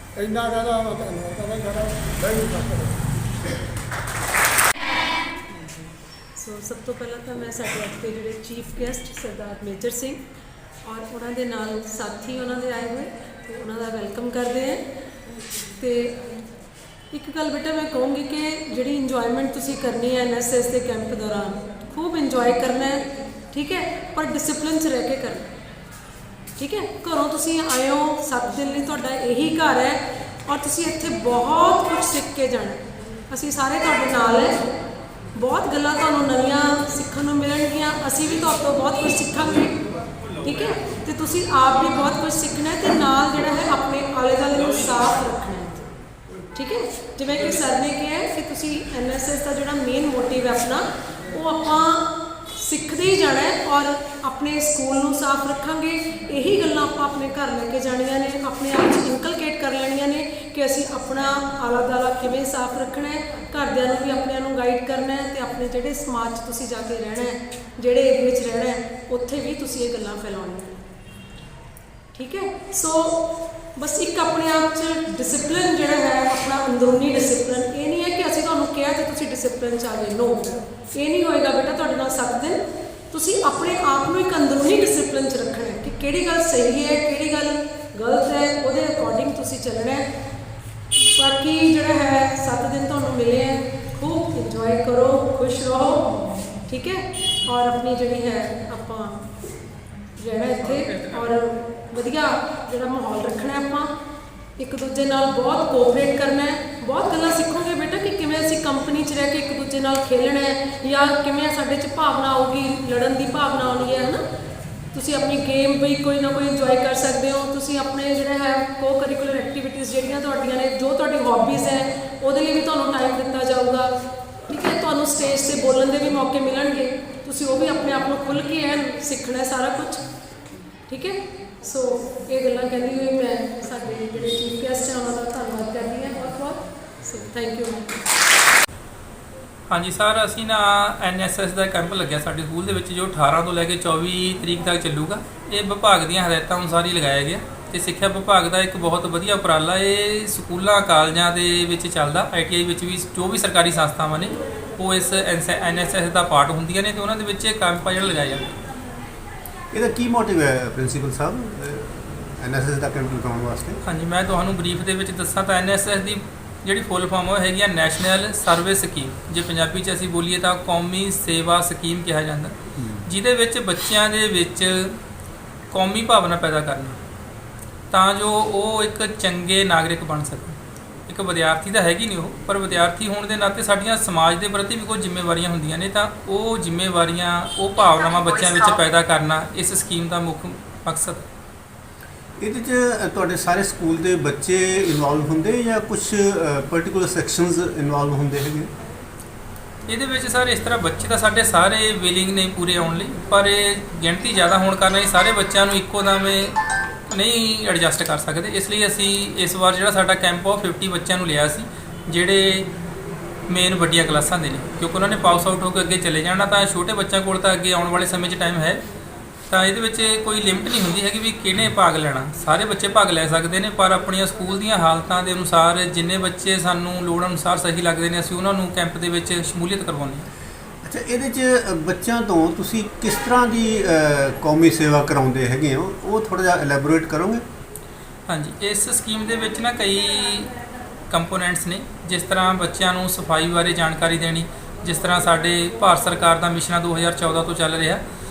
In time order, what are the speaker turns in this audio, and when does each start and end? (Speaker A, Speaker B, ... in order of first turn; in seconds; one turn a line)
Speaker A: 0.2-3.1
Speaker B: 6.3-10.2
Speaker B: 10.8-14.9
Speaker B: 15.8-16.2
Speaker B: 17.1-25.5
Speaker B: 26.6-34.6
Speaker B: 35.4-39.8
Speaker B: 40.4-45.9
Speaker B: 46.5-70.8
Speaker B: 72.2-90.1
Speaker B: 91.0-96.1
Speaker B: 96.7-99.3
Speaker B: 100.2-103.9
Speaker B: 104.6-114.2
Speaker B: 114.9-123.9
Speaker B: 124.5-130.0
Speaker B: 130.9-138.0
Speaker C: 139.7-158.5
Speaker D: 159.7-163.8
Speaker C: 163.8-172.6
Speaker D: 172.8-173.1
Speaker C: 173.1-175.0
Speaker C: 175.7-177.0
Speaker C: 177.9-191.2
Speaker D: 192.4-198.7
Speaker C: 199.9-206.6
Speaker C: 207.1-212.7
Speaker C: 213.5-218.8
Speaker C: 219.5-230.3
Speaker D: 230.8-237.4
Speaker C: 238.3-240.5
Speaker C: 241.1-248.0